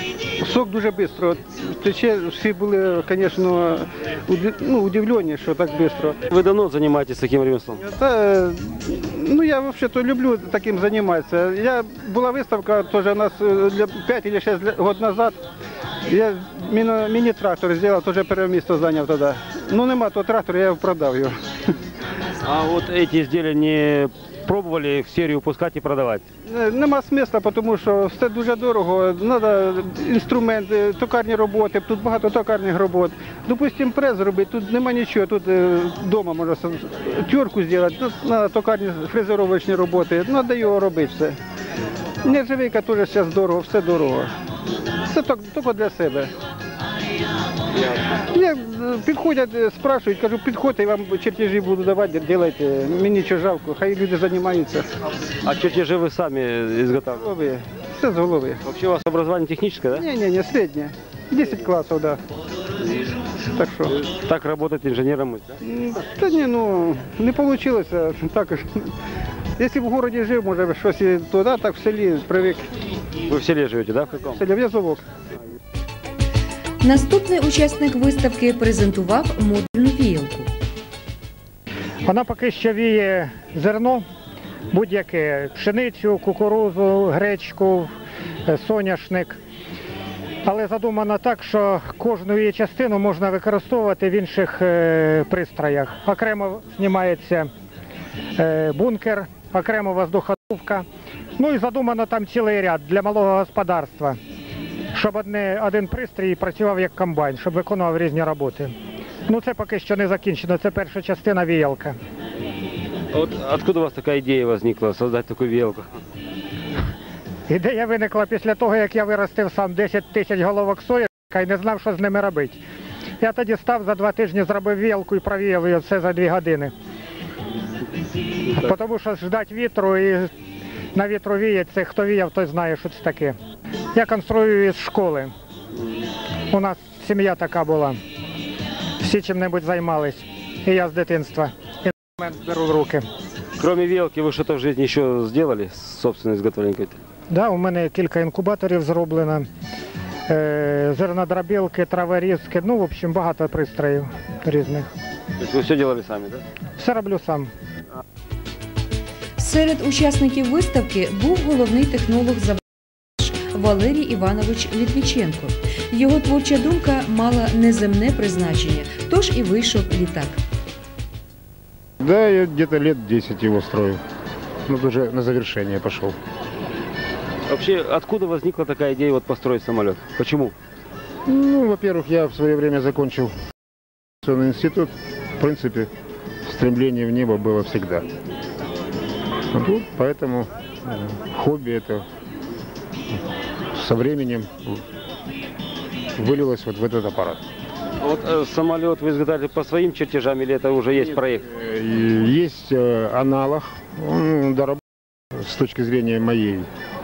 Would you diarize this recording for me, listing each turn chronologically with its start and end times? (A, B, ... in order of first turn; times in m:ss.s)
0:00.4-0:06.2 A
0:06.3-0:07.8 B
0:07.8-0:15.4 A
0:16.1-0:21.4 A
0:22.4-0:26.2 B
0:26.5-0:41.4 A
0:42.2-0:44.3 A
0:45.1-0:46.3 A
0:48.3-0:54.9 A
0:55.4-0:57.2 B
0:57.1-0:58.6 A
0:58.6-1:00.0 B
1:00.0-1:02.2 A
1:03.5-1:03.9 A
1:04.0-1:05.6 B
1:05.6-1:08.9 A
1:09.6-1:12.7 A
1:13.2-1:14.4 B
1:14.4-1:15.0 A
1:16.8-1:20.5 C
1:22.0-1:24.0 D
1:24.7-1:27.9 D
1:28.5-1:29.4 D
1:30.4-1:37.5 D
1:38.4-1:40.8 D
1:41.4-1:44.2 D
1:44.9-1:48.7 D
1:49.3-1:52.0 D
1:53.1-1:55.8 B
1:57.5-2:02.6 D
2:03.2-2:06.7 D
2:08.5-2:10.3 D
2:10.9-2:13.4 D
2:13.9-2:15.3 D
2:16.5-2:18.0 D
2:19.0-2:23.0 D
2:23.6-2:27.0 B
2:27.3-2:29.5 D
2:30.3-2:34.9 D
2:35.4-2:36.4 B
2:36.8-2:37.5 D
2:39.4-2:42.6 C
2:43.2-2:50.4 C
2:52.0-2:54.0 E
2:54.7-2:56.2 E
2:57.5-3:00.5 B
3:01.2-3:03.3 E
3:04.2-3:05.9 E
3:06.4-3:08.1 E
3:09.5-3:12.0 E
3:13.7-3:14.8 E
3:16.2-3:17.4 E
3:18.0-3:21.4 B
3:21.5-3:26.7 E